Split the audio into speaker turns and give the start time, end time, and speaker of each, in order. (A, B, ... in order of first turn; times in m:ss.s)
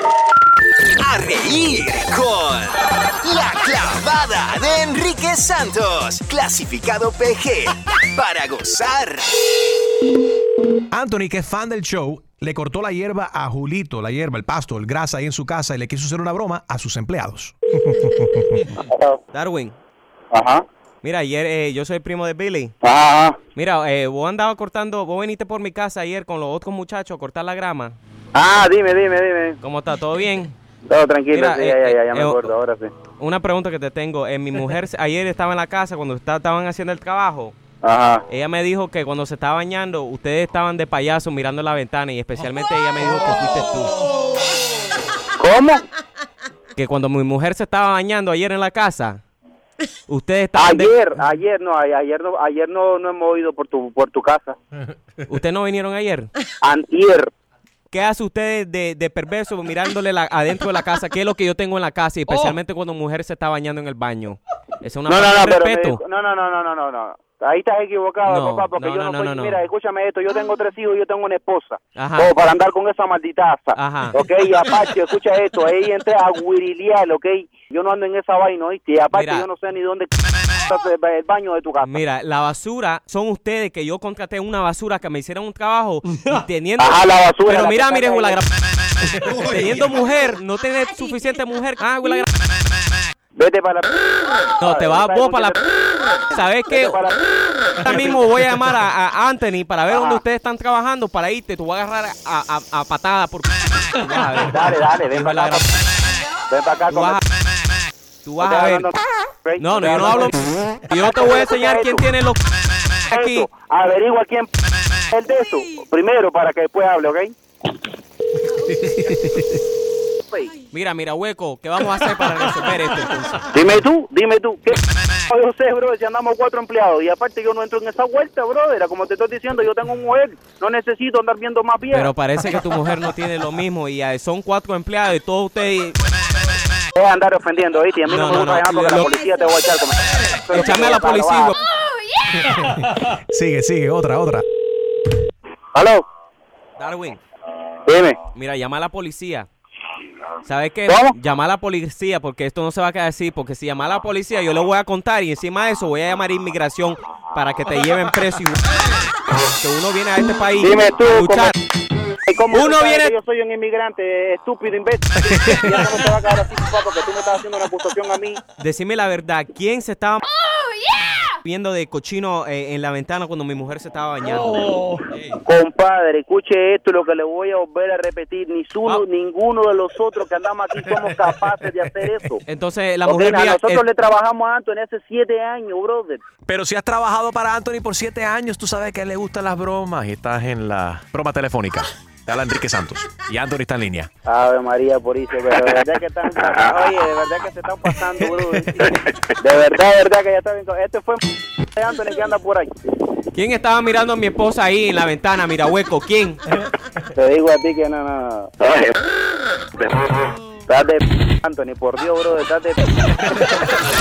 0:01.0-0:09.4 A
0:10.9-0:18.7 B
0:18.9-0:19.2 C
0:19.3-0:19.8 D
0:20.3-0:20.6 C
0:21.0-0:22.7 D
0:22.8-0:23.4 C
0:23.5-0:28.0 D
0:28.3-0:29.6 C
0:29.6-0:30.5 D
0:30.9-0:32.9 C
0:31.3-0:32.5 D
0:33.2-0:37.5 D
0:37.8-0:38.2 C
0:38.3-0:43.9 D
0:45.4-0:45.8 C
0:46.8-0:49.2 D
0:50.1-0:50.9 D
0:50.6-0:54.6 C
0:55.3-0:56.3 D
0:56.6-0:57.3 C
0:57.9-1:06.0 D
1:05.1-1:22.0 C
1:08.2-1:09.6 D
1:12.0-1:12.3 D
1:13.7-1:14.2 D
1:19.1-1:19.5 D
1:21.8-1:32.3 D
1:26.8-1:28.4 C
1:33.4-1:35.7 C
1:34.6-1:35.6 D
1:36.2-1:38.1 C
1:36.3-1:37.0 D
1:37.8-1:45.8 D
1:39.9-1:40.2 C
1:44.4-1:45.6 C
1:46.5-1:47.2 C
1:46.9-1:47.2 D
1:48.2-1:48.9 D
1:48.4-1:52.0 C
1:49.6-1:53.5 D
1:53.1-1:54.5 C
1:55.1-1:57.3 C
1:58.8-1:59.5 B
2:00.3-2:00.6 C
2:00.7-2:03.4 D
2:03.5-2:04.8 C
2:05.3-2:12.1 C
2:11.9-2:16.0 D
2:16.9-2:21.5 C
2:18.1-2:19.2 D
2:20.5-2:21.6 D
2:22.4-2:24.4 B
2:25.7-2:26.0 C
2:26.8-2:27.2 D
2:27.8-2:28.2 C
2:28.3-2:29.5 D
2:30.4-2:38.8 D
2:30.9-2:31.1 C
2:39.6-2:41.5 D
2:40.6-2:41.5 C
2:42.3-2:48.4 C
2:42.5-2:43.1 D
2:45.3-2:45.6 B
2:48.6-2:50.2 D
2:51.2-2:55.0 D
2:55.4-3:02.4 C
3:02.4-3:03.8 D
3:03.0-3:06.2 C
3:06.5-3:14.1 B
3:14.2-3:21.2 C
3:18.5-3:19.1 B
3:21.7-3:22.7 C
3:23.3-3:26.4 D
3:27.1-3:29.0 C
3:30.7-3:33.5 C